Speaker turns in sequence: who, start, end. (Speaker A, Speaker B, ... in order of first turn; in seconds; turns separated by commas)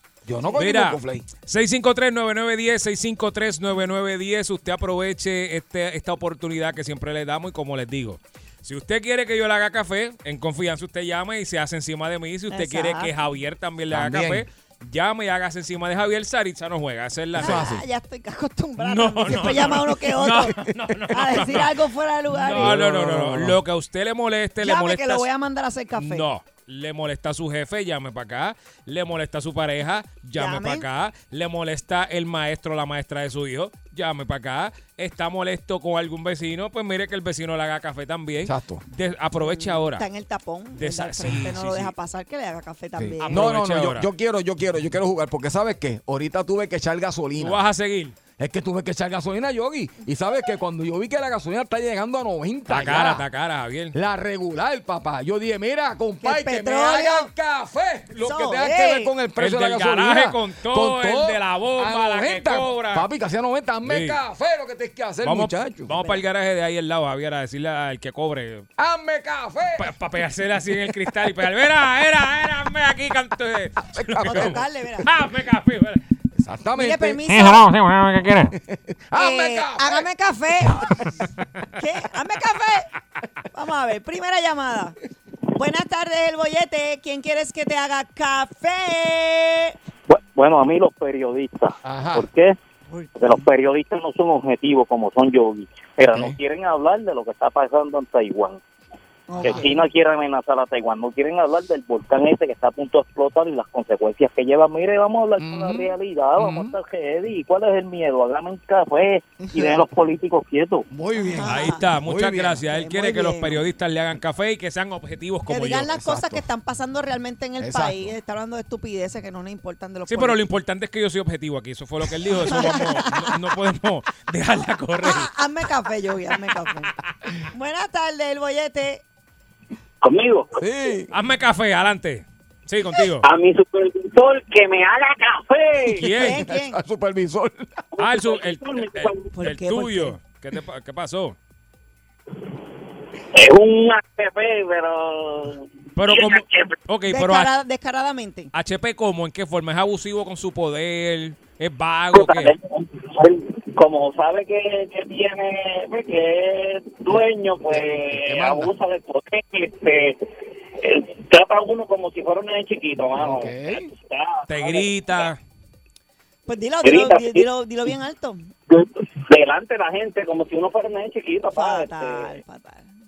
Speaker A: 0.2-1.3, Speaker B: 0.6-17.7, Speaker C: 12.5-13.1, Speaker A: 13.9-14.4, Speaker A: 17.4-17.8, Speaker C: 17.4-20.6, Speaker B: 18.8-21.7, Speaker C: 21.1-22.7, Speaker A: 22.4-23.6, Speaker B: 22.4-25.3, Speaker C: 24.6-26.2, Speaker B: 25.9-40.0, Speaker C: 30.4-30.8, Speaker A: 38.4-38.8, Speaker C: 39.4-43.4, Speaker B: 40.8-41.9, Speaker A: 43.0-47.6, Speaker B: 43.2-44.1, Speaker B: 47.4-48.1, Speaker A: 48.4-53.2, Speaker B: 52.7-53.9, Speaker A: 53.9-65.9, Speaker C: 56.2-57.3, Speaker C: 58.2-59.1, Speaker B: 59.4-63.1, Speaker B: 63.8-64.2, Speaker B: 65.2-68.7, Speaker C: 65.9-66.2, Speaker A: 68.8-69.9, Speaker B: 69.8-76.0, Speaker A: 73.8-74.6, Speaker C: 74.2-75.1, Speaker A: 76.3-80.1, Speaker C: 76.8-77.7, Speaker C: 79.1-81.1, Speaker C: 81.8-82.9, Speaker C: 83.5-85.0, Speaker C: 85.5-89.7, Speaker D: 90.1-92.6, Speaker A: 91.8-92.2, Speaker C: 92.9-93.4, Speaker D: 93.2-98.6, Speaker A: 96.1-96.4, Speaker C: 99.3-99.8, Speaker D: 99.4-110.9, Speaker A: 105.4-106.7, Speaker C: 109.4-109.8, Speaker A: 110.9-112.6, Speaker C: 111.2-111.8, Speaker B: 111.4-115.9, Speaker C: 112.7-113.6, Speaker C: 115.5-120.4, Speaker A: 115.9-116.4, Speaker A: 117.6-118.1, Speaker B: 120.1-125.3, Speaker C: 122.4-123.3, Speaker C: 125.0-126.9, Speaker C: 127.5-129.0, Speaker D: 130.0-130.6, Speaker A: 130.6-131.1, Speaker B: 131.1-133.3, Speaker D: 133.2-136.1, Speaker B: 135.9-136.4, Speaker C: 136.1-136.8, Speaker A: 136.2-137.8, Speaker D: 137.9-139.3, Speaker B: 138.0-141.4, Speaker C: 139.3-140.2, Speaker D: 143.3-146.8, Speaker B: 145.9-147.5, Speaker C: 147.1-148.5, Speaker B: 148.5-152.5, Speaker D: 152.1-165.3, Speaker A: 157.7-158.7, Speaker A: 163.2-163.9, Speaker B: 164.5-165.4, Speaker C: 166.5-168.5, Speaker D: 166.8-167.5, Speaker D: 168.7-172.4, Speaker C: 171.5-172.9